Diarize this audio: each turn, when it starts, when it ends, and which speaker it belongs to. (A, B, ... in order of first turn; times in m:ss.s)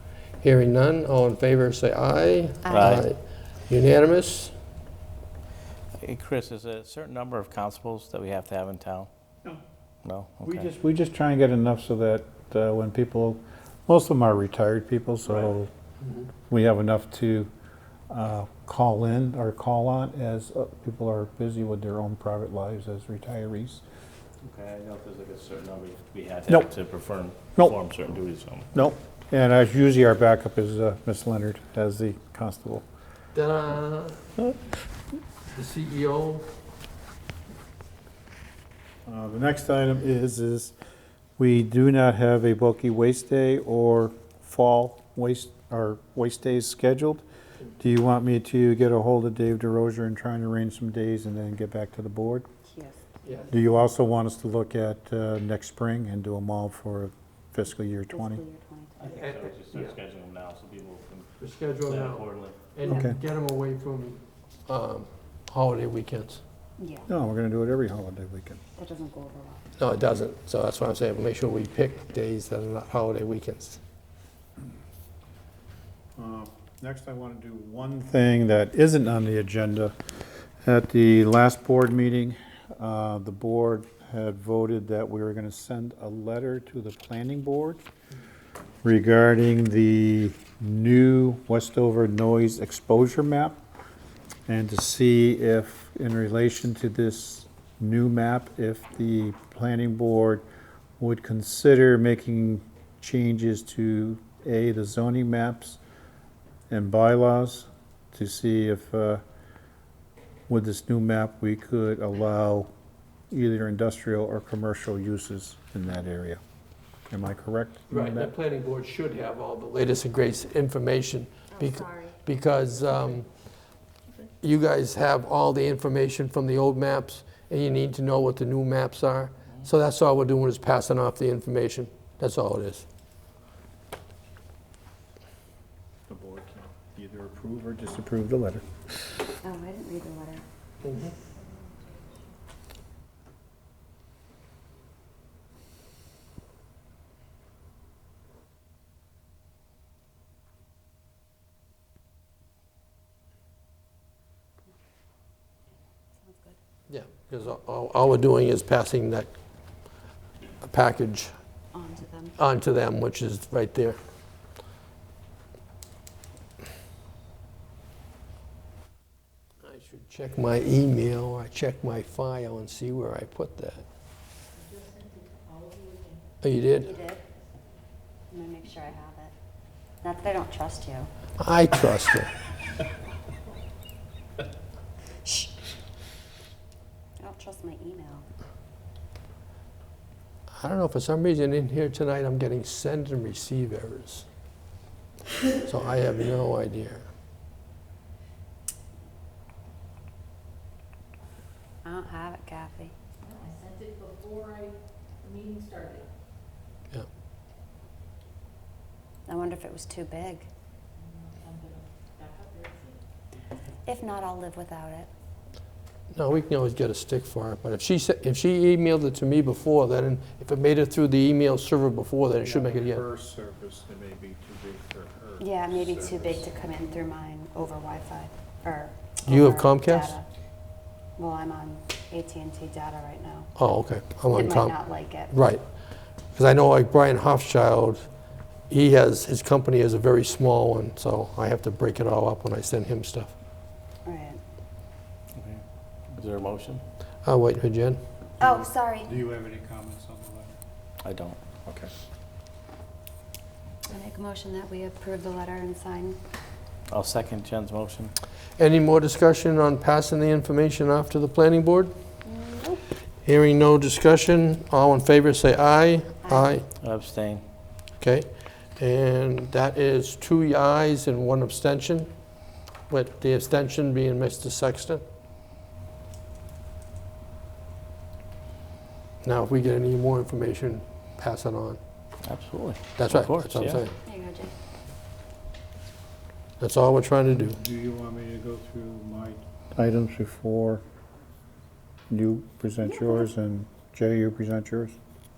0:00.4-0:04.5 A
0:02.6-0:03.0 B
0:02.7-0:03.1 C
0:06.0-0:09.1 C
0:10.0-0:10.7 C
0:10.4-0:15.7 D
0:15.2-0:15.6 C
0:16.5-0:17.5 D
0:18.1-0:23.8 D
0:24.4-0:28.7 C
0:28.7-0:32.9 D
0:33.3-0:34.4 A
0:35.5-0:36.5 A
0:39.1-0:40.8 D
0:41.4-0:47.2 D
0:47.8-0:52.5 D
0:52.7-0:53.0 B
0:53.2-0:53.5 A
0:53.5-0:58.4 D
0:58.1-0:59.3 B
0:59.0-1:01.3 C
0:59.1-0:59.8 A
1:01.4-1:06.4 A
1:01.8-1:02.6 C
1:02.8-1:03.2 D
1:06.8-1:07.1 B
1:07.1-1:08.6 D
1:08.8-1:09.6 B
1:09.8-1:13.8 A
1:16.2-1:19.9 D
1:20.6-1:27.8 D
1:28.8-1:33.6 D
1:34.5-1:40.4 D
1:41.0-1:45.8 D
1:46.7-1:49.2 D
1:50.5-1:52.7 D
1:53.3-1:56.4 D
1:57.1-1:58.3 D
1:57.9-2:03.3 A
2:01.5-2:02.2 B
2:04.4-2:12.9 A
2:16.1-2:18.7 D
2:19.4-2:20.4 B
2:20.8-2:21.2 A
2:36.2-2:36.6 B
2:36.9-2:39.3 A
2:40.6-2:41.3 A
2:41.7-2:42.4 B
2:42.4-2:44.0 A
2:49.6-2:53.9 A
2:54.7-2:56.2 E
2:56.4-2:56.9 A
2:56.8-2:57.2 B
2:58.3-2:59.3 B
3:00.0-3:01.1 B
3:01.4-3:02.3 A
3:05.2-3:05.5 B
3:07.2-3:08.3 B
3:10.6-3:14.3 A
3:15.6-3:17.1 A
3:21.8-3:23.0 B
3:23.5-3:24.7 E
3:25.2-3:26.0 E
3:29.3-3:30.5 B
3:32.2-3:32.8 E
3:33.9-3:35.1 B
3:36.1-3:43.0 A
3:42.4-3:46.4 D
3:45.4-3:50.3 B
3:49.2-3:50.2 A
3:51.2-3:53.5 B
3:53.6-3:54.8 A
3:54.3-3:55.4 B
3:55.3-3:55.6 A
3:56.3-3:58.1 A
3:58.7-4:03.3 A
4:04.0-4:04.4 B
4:05.4-4:06.8 C
4:07.2-4:08.0 A
4:08.4-4:09.1 B
4:08.4-4:10.6 D
4:11.0-4:11.4 C
4:11.6-4:11.9 D
4:13.9-4:16.2 B
4:16.9-4:18.1 C
4:18.6-4:21.9 A
4:22.2-4:22.8 B
4:23.2-4:26.7 A
4:26.2-4:26.6 B
4:26.8-4:27.4 C
4:28.0-4:32.1 A
4:32.9-4:35.0 A
4:39.2-4:41.8 A
4:42.2-4:43.8 C
4:43.0-4:43.9 A
4:44.0-4:44.6 B
4:46.6-4:47.6 A
4:47.5-4:50.8 D
4:52.1-4:55.0 D
4:52.8-4:53.3 B